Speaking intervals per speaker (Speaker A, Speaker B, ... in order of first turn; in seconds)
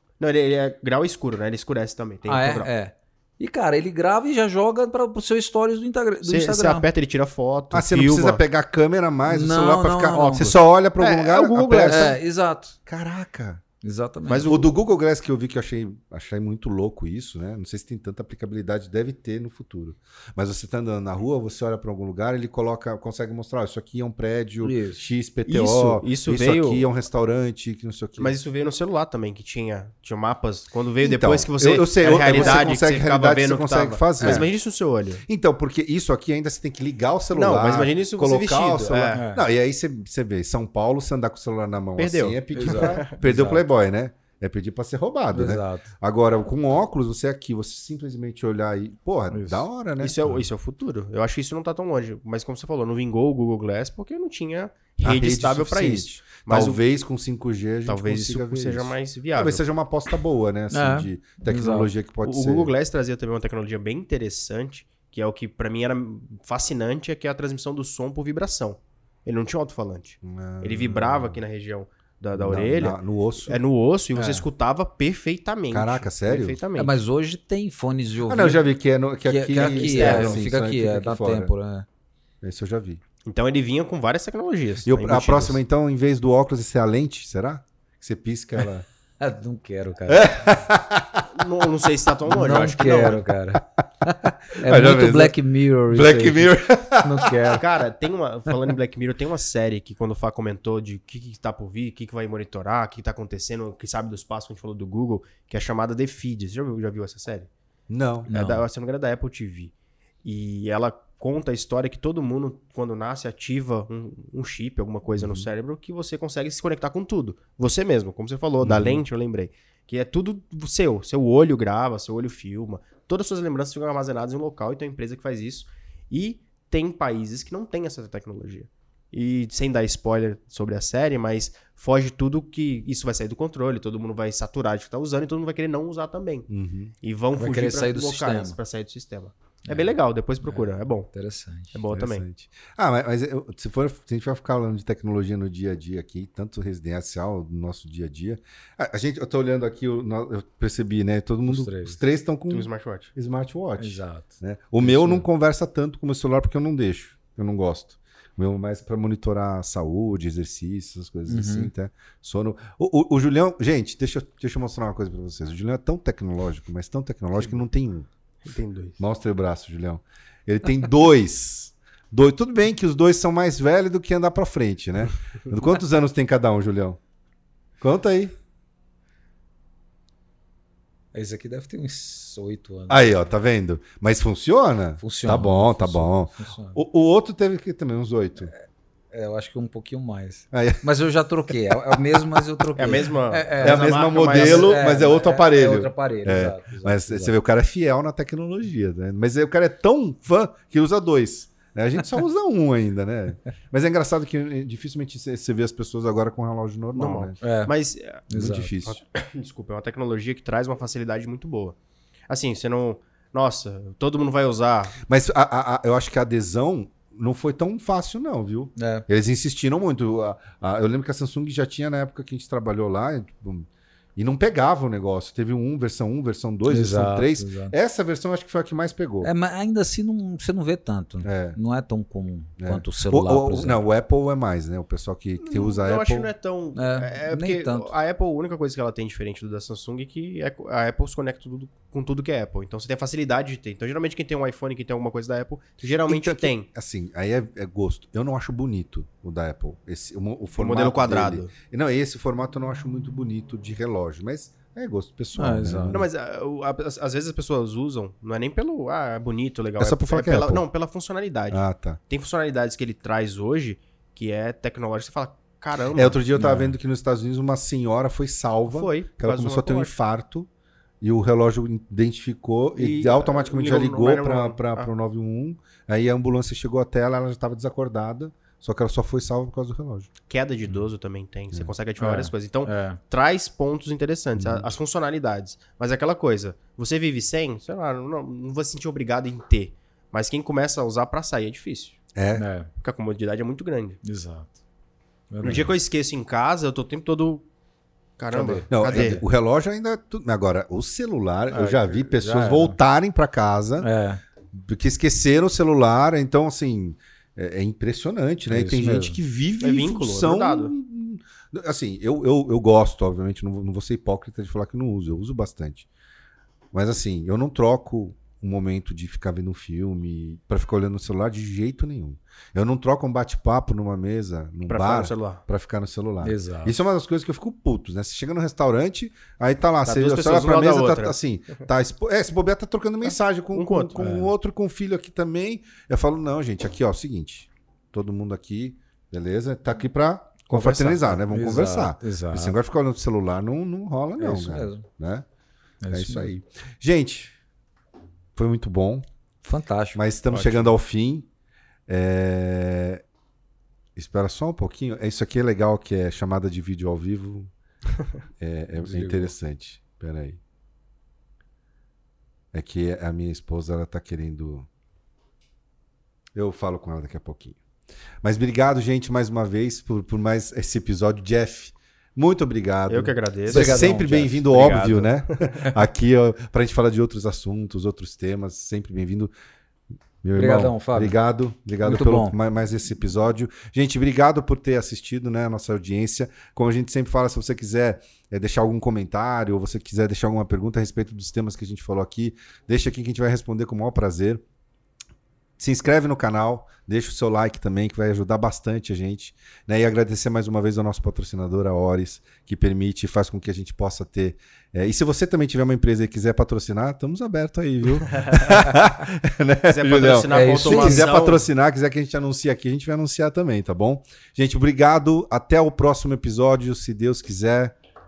Speaker A: 0.2-2.7, 6.2-8.4, 10.1-12.1, 14.2-14.7, 25.4-26.9, 28.2-35.2, 37.3-39.2, 42.0-43.1, 50.0-56.8, 57.9-59.6, 62.2-76.9, 79.5-80.5, 83.2-85.6, 91.3-93.3, 97.5-107.5, 108.3-109.7, 110.2-136.5, 137.0-141.1, 141.7-142.2, 152.5-153.1, 168.4-169.0, 192.8-194.9, 206.9-208.2, 208.9-211.8, 212.3-215.0, 235.4-246.7, 250.6-251.5, 255.9-266.2, 268.7-269.9, 272.8-274.9, 280.3-292.0, 292.8-294.0, 295.4-297.4, 298.2-299.2, 301.5-302.1, 309.6-310.7, 324.7-325.4, 329.8-331.6, 333.5-334.0, 340.4-341.2, 350.3-350.7, 372.9-375.6, 408.1-408.5, 409.7-411.5
Speaker B: 2.3-6.9, 9.3-10.5, 11.8-12.8, 13.8-14.5, 24.6-25.0, 34.2-34.5, 39.1-39.4, 42.5-43.6, 45.3-45.9, 49.3-49.7, 60.7-61.9, 74.2-74.5, 76.8-78.7, 79.2-81.8, 89.2-90.6, 92.3-97.6, 108.3-108.6, 137.3-138.6, 139.7-141.8, 151.5-152.0, 153.8-155.3, 161.3-161.7, 181.1-183.2, 185.0-186.8, 188.4-197.4, 207.4-207.7, 208.3-208.7, 218.8-219.1, 226.7-227.7, 229.2-233.8, 236.8-237.9, 255.3-256.0, 266.4-266.7, 282.0-283.0, 292.3-292.7, 294.0-294.6, 295.3-295.7, 298.3-299.2, 302.2-302.8, 303.8-304.2, 308.5-309.2, 326.2-326.8, 334.0-334.3, 341.3-342.5, 344.2-344.9, 345.8-346.3, 349.4-350.0, 358.8-359.3, 373.5-374.7, 380.3-381.2, 381.8-382.4, 410.3-411.0
Speaker C: 7.7-12.2, 12.8-13.6, 14.4-28.4, 31.0-34.5, 35.2-50.4, 55.0-62.7, 70.2-71.4, 72.3-73.6, 75.7-76.6, 78.2-81.5, 82.4-83.0, 84.8-88.8, 90.1-91.2, 94.5-95.4, 95.9-97.4, 107.9-108.3, 118.6-119.0, 136.5-136.9, 141.9-168.1, 169.0-177.0, 177.8-178.3, 182.9-188.5, 190.5-190.8, 191.5-192.2, 193.6-207.4, 208.3-209.0, 215.1-229.3, 231.2-231.6, 232.6-236.3, 246.0-256.1, 259.8-260.6, 261.5-262.0, 265.9-270.5, 271.0-280.1, 284.4-284.7, 292.1-292.4, 298.7-303.9, 304.5-315.9, 316.7-345.2, 345.9-347.3, 348.3-349.1, 349.9-351.3, 351.9-353.0, 353.9-357.5, 358.4-360.4, 362.5-364.7, 366.3-367.6, 368.2-379.3, 380.2-394.4, 395.6-417.7